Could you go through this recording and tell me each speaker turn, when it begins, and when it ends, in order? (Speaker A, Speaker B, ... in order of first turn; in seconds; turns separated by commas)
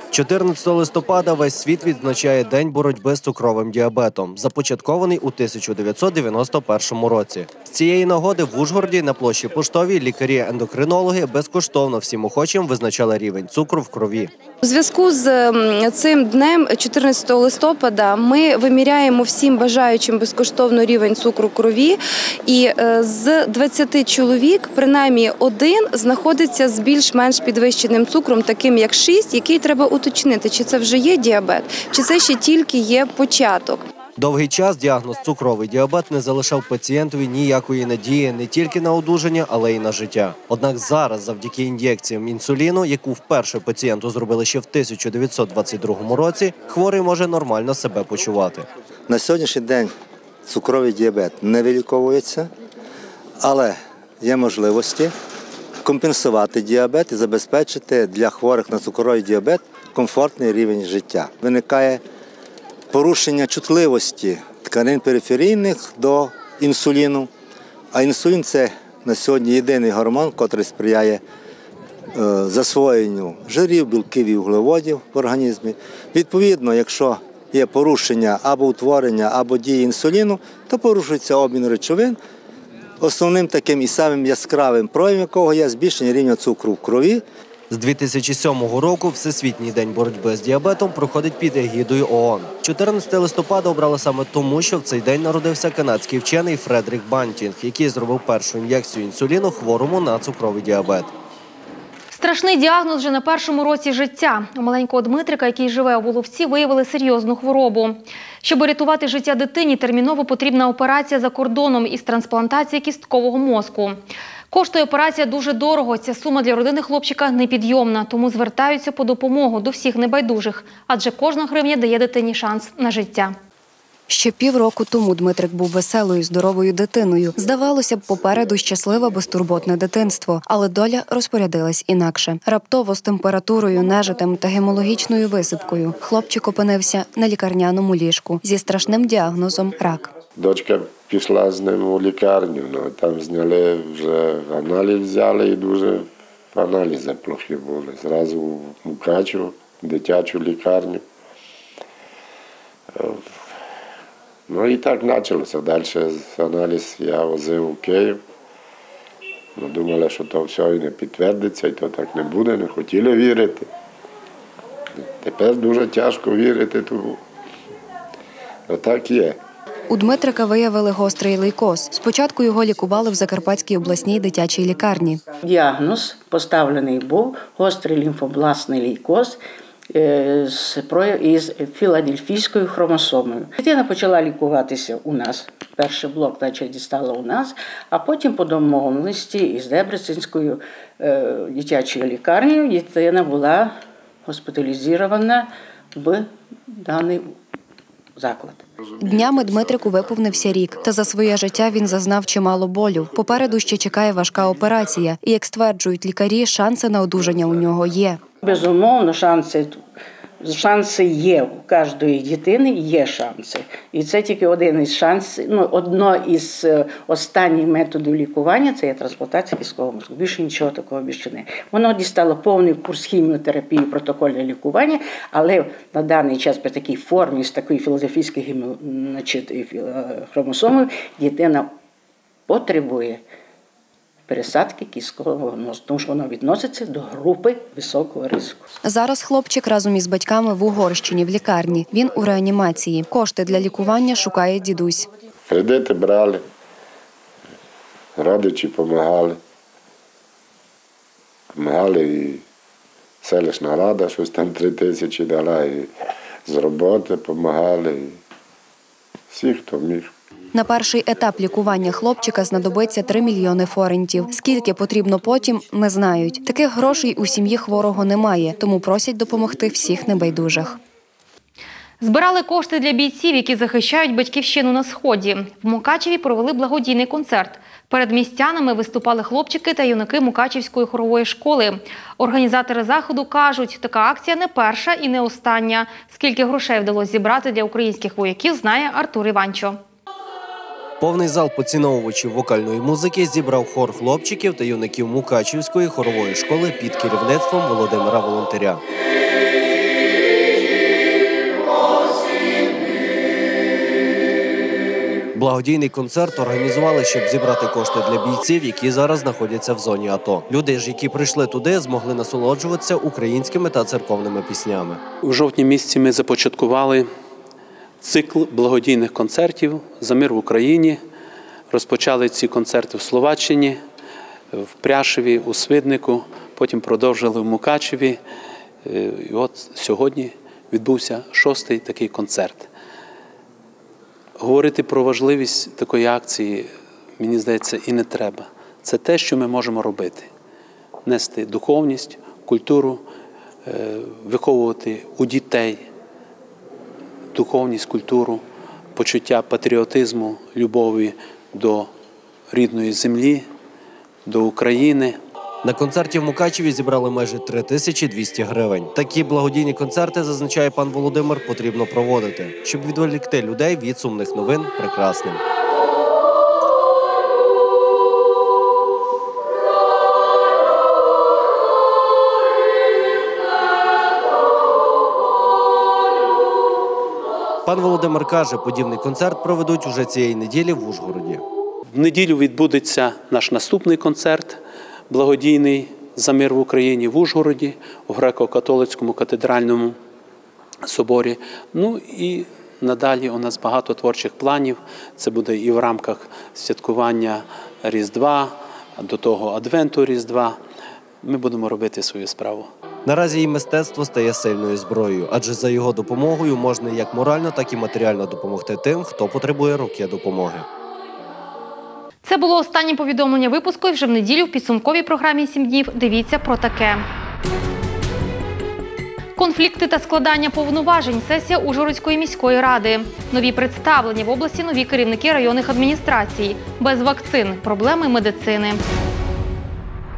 Speaker A: 0.1-14.3, Speaker B: 14.6-33.9, Speaker A: 34.2-48.7, Speaker C: 49.1-49.9, Speaker C: 50.4-52.5, Speaker C: 53.4-55.1, Speaker C: 55.8-62.0, Speaker C: 62.9-67.3, Speaker C: 67.9-71.2, Speaker C: 72.1-82.2, Speaker C: 83.0-87.2, Speaker A: 87.7-101.1, Speaker D: 102.1-114.0, Speaker D: 114.5-123.3, Speaker E: 124.1-140.1, Speaker F: 140.3-151.0, Speaker F: 152.9-153.5, Speaker F: 154.5-158.2, Speaker F: 159.6-163.7, Speaker F: 165.1-167.2, Speaker F: 168.7-169.4, Speaker E: 169.9-175.2, Speaker G: 175.4-197.3, Speaker G: 198.2-198.6, Speaker E: 199.0-208.2, Speaker G: 208.4-209.8, Speaker G: 210.4-231.7, Speaker G: 232.5-233.2, Speaker G: 234.3-238.7, Speaker E: 238.8-245.1, Speaker F: 245.5-246.4, Speaker F: 248.2-249.4, Speaker F: 251.5-252.4, Speaker F: 253.2-255.9, Speaker F: 256.4-258.2, Speaker F: 259.3-260.1, Speaker E: 260.5-270.8, Speaker D: 272.0-289.8, Speaker A: 291.0-298.8, Speaker A: 305.3-315.0, Speaker H: 315.2-317.1, Speaker H: 318.0-321.0, Speaker H: 321.7-323.8, Speaker H: 324.5-328.2, Speaker H: 328.8-332.7, Speaker H: 334.4-340.3, Speaker H: 341.0-343.0, Speaker H: 343.6-345.8, Speaker H: 347.3-348.4, Speaker H: 348.9-351.9, Speaker H: 352.5-353.5, Speaker H: 354.2-355.2, Speaker A: 355.6-365.4, Speaker A: 377.6-381.4, Speaker H: 381.9-384.6, Speaker H: 385.1-390.0, Speaker H: 390.8-400.6, Speaker H: 401.2-402.7, Speaker A: 403.0-410.7, Speaker D: 412.2-417.0, Speaker D: 419.4-428.8